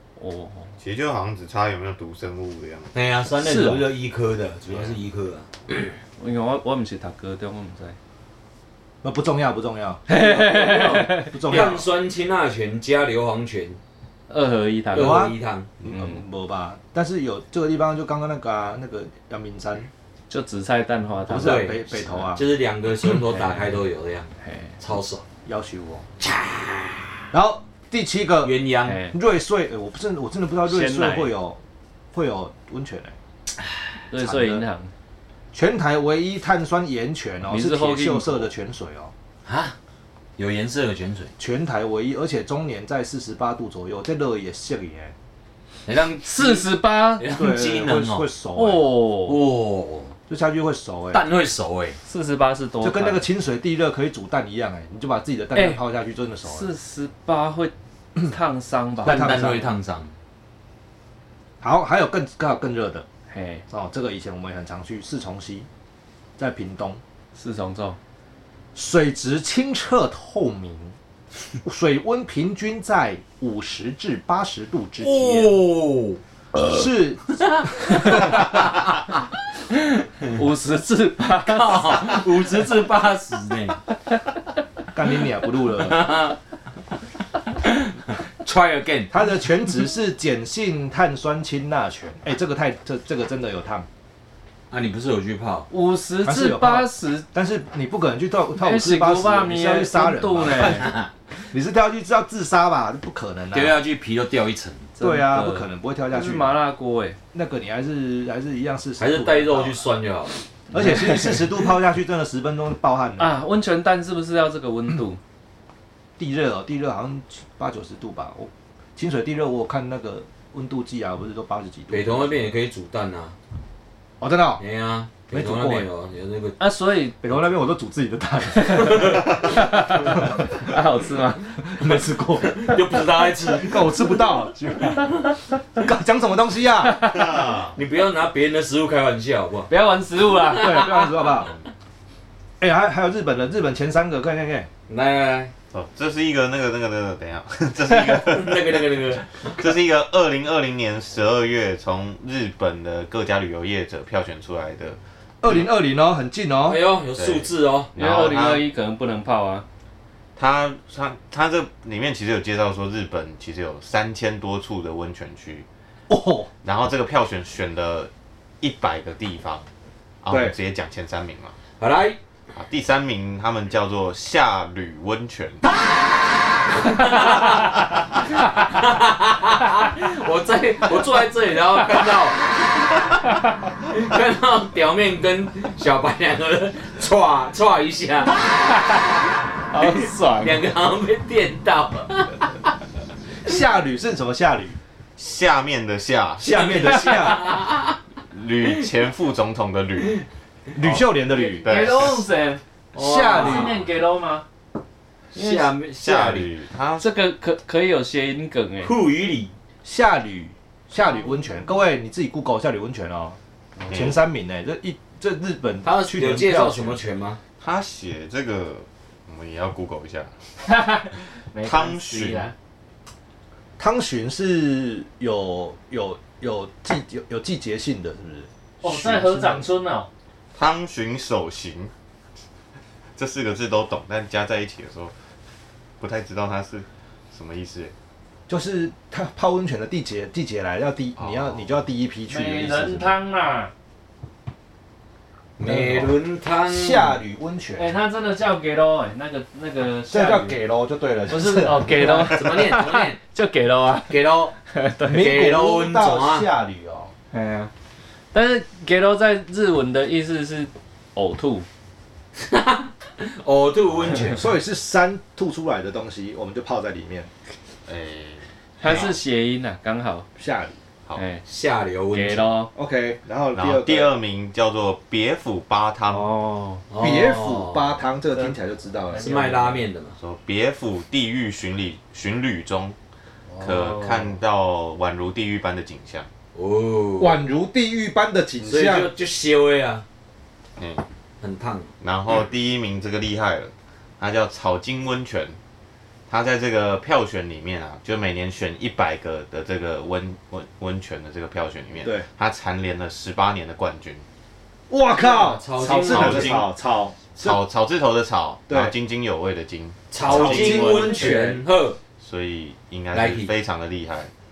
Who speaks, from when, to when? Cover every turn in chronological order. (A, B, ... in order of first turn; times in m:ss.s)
0:00.2-0:00.7 A
0:00.8-0:02.9 B
0:02.9-0:05.5 C
0:03.4-0:03.9 A
0:04.7-0:05.0 B
0:06.2-0:08.0 A
0:09.0-0:10.2 D
0:10.1-0:11.8 A
0:10.1-0:13.8 C
0:11.1-0:11.9 D
0:14.3-0:15.3 A
0:14.9-0:15.7 C
0:15.0-0:19.9 D
0:20.3-0:21.9 A
0:21.3-0:22.4 D
0:21.3-0:25.2 C
0:23.0-0:23.7 A
0:24.4-0:24.7 A
0:25.5-0:26.1 D
0:26.2-0:27.2 C
0:27.3-0:28.6 D
0:28.4-0:29.0 C
0:28.8-0:29.2 A
0:29.1-0:31.6 D
0:30.7-0:31.3 A
0:32.1-0:33.2 D
0:34.1-0:34.9 A
0:34.2-0:34.6 D
0:35.5-0:39.1 D
0:37.5-0:38.5 A
0:39.4-0:39.8 C
0:40.4-0:41.3 C
0:41.4-0:45.1 D
0:45.9-0:48.3 C
0:46.3-0:47.3 A
0:47.2-0:48.9 D
0:48.6-0:49.4 A
0:49.2-0:50.2 C
0:50.3-0:51.2 D
0:51.1-0:52.0 C
0:52.1-0:53.3 A
0:52.8-0:56.7 D
0:55.6-0:55.8 A
0:56.5-0:59.6 A
0:59.0-0:59.6 D
0:59.0-1:00.1 C
1:01.6-1:03.0 D
1:03.3-1:03.6 A
1:03.7-1:05.7 D
1:06.4-1:07.0 D
1:07.4-1:08.0 A
1:08.8-1:11.0 D
1:11.6-1:15.5 D
1:15.0-1:16.2 C
1:16.6-1:18.6 D
1:17.5-1:19.0 C
1:20.2-1:22.3 A
1:21.4-1:23.8 C
1:24.9-1:26.2 D
1:25.8-1:26.4 C
1:27.7-1:29.1 C
1:29.1-1:33.9 D
1:34.7-1:35.7 C
1:35.7-1:37.3 A
1:36.2-1:40.9 D
1:38.6-1:40.9 A
1:40.6-1:41.1 C
1:41.5-1:43.8 D
1:43.5-1:44.9 C
1:45.0-1:47.2 A
1:45.0-1:46.6 D
1:47.3-1:49.9 D
1:49.0-1:50.4 C
1:50.7-1:53.3 D
1:50.7-1:51.4 A
1:53.2-1:55.2 A
1:56.2-2:02.3 D
2:01.9-2:03.4 C
2:04.2-2:04.6 D
2:04.6-2:06.6 C
2:05.3-2:05.9 D
2:06.6-2:07.2 A
2:07.2-2:10.7 D
2:08.6-2:11.8 A
2:08.9-2:09.4 C
2:11.6-2:12.8 D
2:12.4-2:14.0 C
2:13.6-2:17.0 D
2:16.9-2:17.4 A
2:17.0-2:17.8 B
2:17.8-2:19.7 C
2:19.7-2:21.0 A
2:20.6-2:21.5 D
2:22.6-2:24.7 D
2:24.9-2:25.5 C
2:25.7-2:28.9 B
2:27.8-2:29.7 C
2:29.5-2:35.6 B
2:35.4-2:36.8 D
2:36.7-2:37.9 C
2:37.2-2:38.6 B
2:38.0-2:39.6 A
2:40.4-2:45.7 B
2:46.1-2:46.5 D
2:46.6-2:49.7 B
2:50.2-2:51.6 B
2:50.3-2:50.6 D
2:51.8-2:52.2 C
2:52.5-2:55.6 B
2:56.7-2:58.0 C
2:58.5-3:03.2 C
3:03.8-3:09.0 C
3:09.7-3:10.6 A
3:09.7-3:12.7 C
3:13.4-3:14.8 D
3:15.2-3:17.2 B
3:16.4-3:17.4 D
3:16.4-3:18.0 C
3:18.3-3:20.2 B
3:20.8-3:21.9 D
3:20.8-3:21.0 B
3:21.3-3:22.6 A
3:21.6-3:22.3 B
3:22.9-3:23.8 C
3:22.9-3:23.8 D
3:23.2-3:24.4 A
3:25.3-3:26.5 C
3:25.4-3:25.7 A
3:26.0-3:27.1 B
3:27.0-3:28.9 A
3:28.8-3:29.5 C
3:29.8-3:33.4 D
3:33.9-3:34.2 B
3:33.9-3:37.0 D
3:35.8-3:37.4 C
3:37.6-3:40.3 B
3:40.6-3:42.5 A
3:41.6-3:42.5 B
3:43.8-3:49.7 D
3:48.8-3:50.1 A
3:50.6-3:51.9 B
3:53.2-3:55.1 B
3:56.0-3:57.9 B
3:58.5-4:03.2 D
4:01.2-4:01.6 B
4:02.3-4:03.7 A
4:05.6-4:07.2 C
4:05.6-4:06.2 D
4:06.7-4:07.9 D
4:07.8-4:10.6 A
4:10.1-4:12.7 D
4:11.3-4:14.2 A
4:11.9-4:13.2 C
4:14.1-4:14.5 C
4:14.7-4:15.4 A
4:15.0-4:17.1 D
4:15.1-4:16.5 C
4:17.3-4:17.7 A
4:18.3-4:21.7 A
4:22.4-4:24.5 C
4:24.1-4:27.3 D
4:27.9-4:29.2 B
4:28.8-4:30.3 A
4:30.4-4:30.8 D
4:31.2-4:31.4 A
4:31.4-4:32.5 C
4:32.1-4:32.7 A
4:32.8-4:34.2 D
4:33.6-4:36.4 B
4:36.1-4:36.8 A
4:36.9-4:37.9 C
4:37.0-4:39.4 D
4:39.1-4:39.8 A
4:39.2-4:40.2 C
4:40.2-4:43.0 B
4:43.6-4:44.3 A
4:43.6-4:46.3 B
4:46.5-4:47.4 C
4:47.2-4:49.1 D
4:48.6-4:50.0 C
4:50.8-4:51.0 B
4:51.4-4:51.9 C
4:52.0-4:55.6 B
4:56.3-5:04.2 B
5:04.9-5:07.6 D
5:05.2-5:06.6 C
5:06.1-5:06.7 B
5:07.4-5:11.2 B
5:10.1-5:12.0 C
5:10.2-5:11.6 D
5:10.6-5:11.4 A
5:12.2-5:14.3 B
5:13.1-5:13.5 C